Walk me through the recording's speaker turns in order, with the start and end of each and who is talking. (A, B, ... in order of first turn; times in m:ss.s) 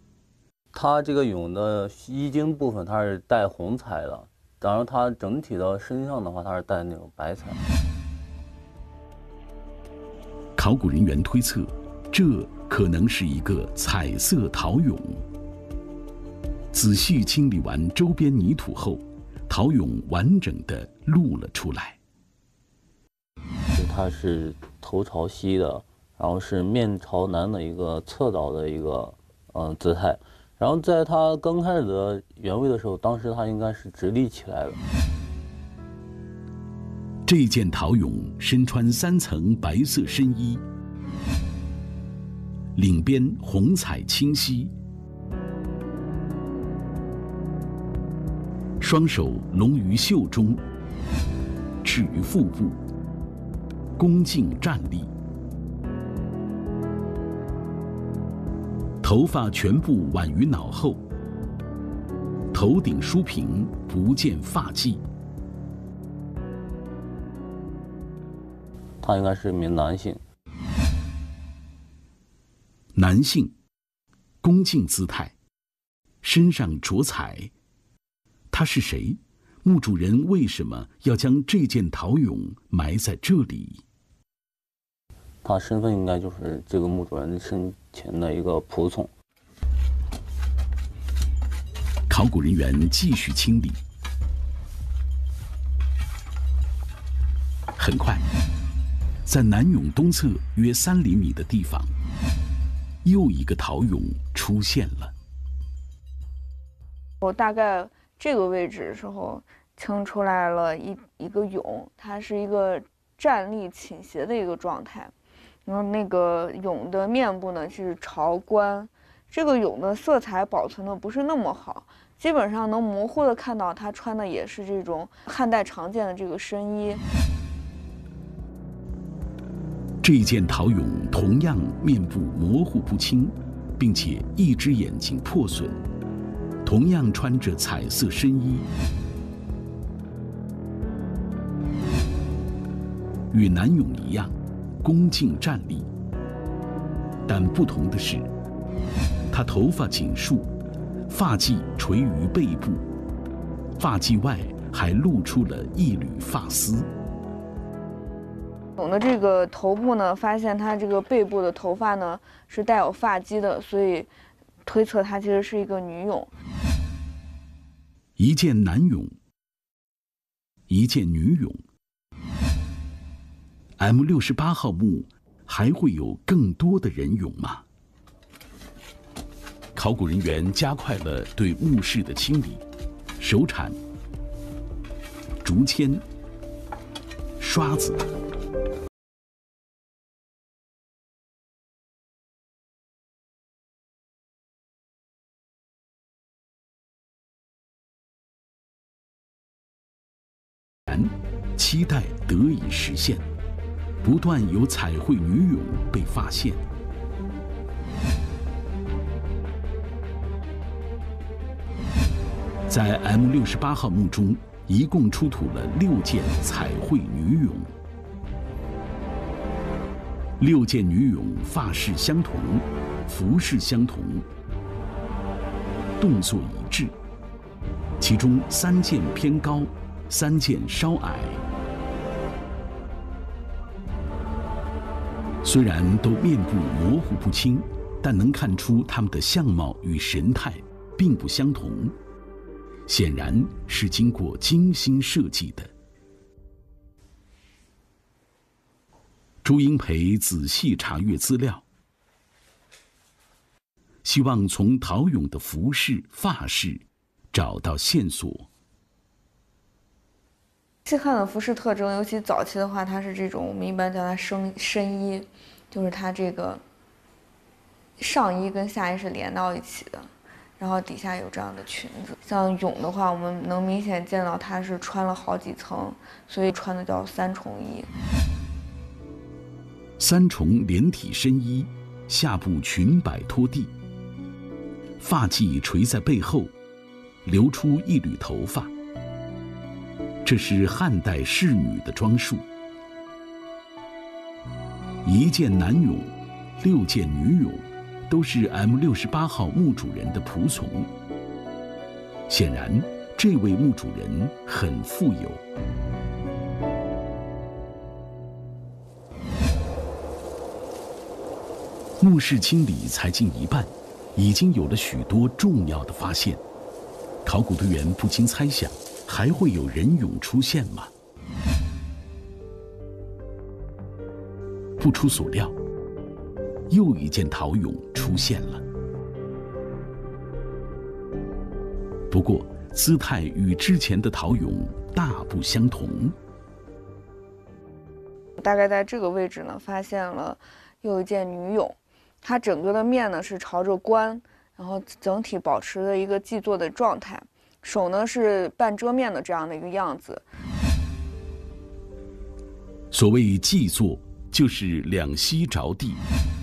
0:00.7-0:07.6 A
0:10.6-0:15.2 B
0:16.7-0:22.0 B
0:23.8-0:34.8 A
0:37.2-0:40.6 B
0:42.7-0:44.7 B
0:48.8-0:50.6 B
0:51.8-0:52.8 B
0:54.0-0:55.1 B
0:59.0-1:01.0 B
1:02.5-1:05.0 B
1:09.0-1:10.2 A
1:12.9-1:13.5 B
1:14.4-1:15.4 B
1:16.2-1:17.5 B
1:18.5-1:23.8 B
1:25.4-1:29.1 A
1:32.1-1:33.8 B
1:37.8-1:38.2 B
1:39.2-1:41.9 B
1:43.0-1:45.1 B
1:47.2-1:55.1 C
1:55.6-2:07.0 C
2:10.0-2:15.8 B
2:16.6-2:18.7 B
2:23.3-2:25.9 B
2:27.3-2:28.3 B
2:29.3-2:30.5 B
2:31.1-2:32.8 B
2:33.8-2:36.9 B
2:38.8-2:44.1 C
2:44.6-2:46.3 C
2:48.2-2:49.2 B
2:50.7-2:51.6 B
2:53.8-2:57.6 B
2:59.7-3:02.6 B
3:03.2-3:03.8 B
3:05.4-3:06.0 B
3:07.4-3:08.0 B
3:20.9-3:23.3 B
3:24.0-3:26.6 B
3:32.7-3:37.7 B
3:40.4-3:44.2 B
3:46.0-3:46.9 B
3:48.0-3:51.4 B
3:55.4-4:01.9 B
4:02.9-4:05.7 B
4:09.4-4:11.6 B
4:14.0-4:18.5 B
4:20.8-4:26.6 C
4:28.0-4:37.9 C
4:40.0-4:43.7 B
4:45.0-4:46.5 B
4:47.2-4:48.7 B
4:50.2-4:52.4 B
4:55.0-5:00.9 B
5:02.3-5:05.4 B
5:12.0-5:16.4 B
5:17.2-5:20.9 B
5:24.8-5:25.6 B
5:26.7-5:28.6 B
5:32.1-5:36.2 B
5:38.4-5:50.2 C
5:52.9-5:56.0 B